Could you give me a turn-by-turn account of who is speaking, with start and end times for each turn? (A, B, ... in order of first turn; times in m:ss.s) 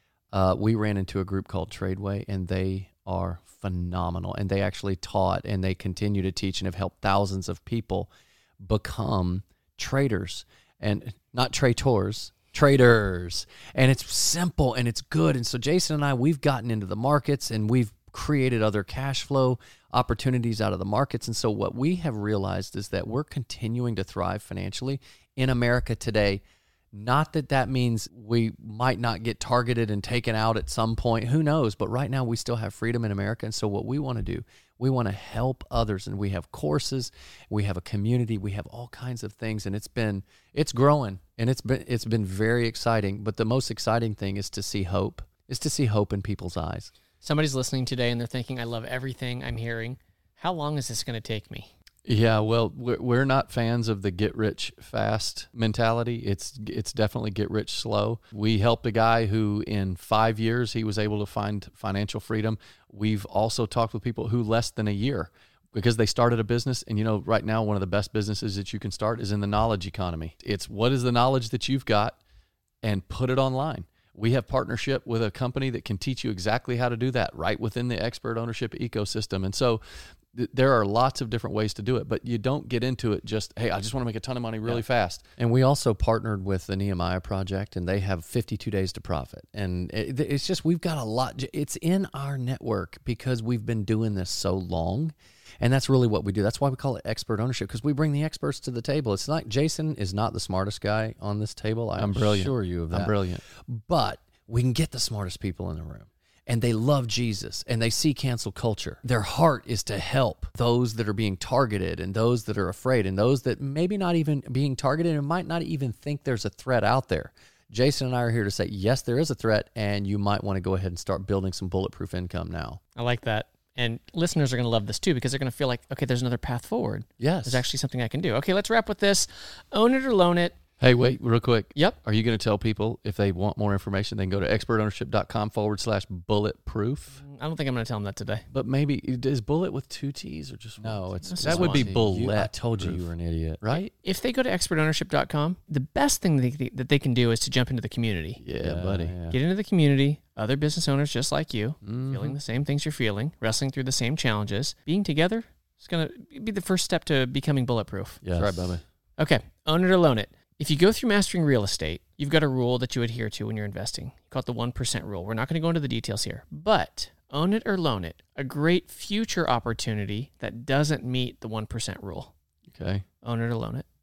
0:00.3-0:46.9 A
0:47.2-0:51.7 B
0:52.1-1:12.2 C
1:12.8-1:25.2 C
1:25.4-2:02.8 A
1:42.0-1:43.4 C
2:03.0-2:10.6 B
2:07.2-2:07.6 A
2:10.8-2:17.2 C
2:17.2-2:18.4 B
2:18.5-2:23.1 C
2:20.8-2:23.8 A
2:21.3-2:21.9 B
2:23.6-2:23.9 C
2:24.0-2:28.4 B
2:28.4-2:29.2 C
2:28.6-2:29.4 A
2:29.3-2:38.2 B
2:31.9-2:32.3 C
2:38.2-2:38.8 C
2:38.4-2:38.8 A
2:39.2-2:52.3 B
2:52.7-2:53.0 C
2:53.2-2:53.8 B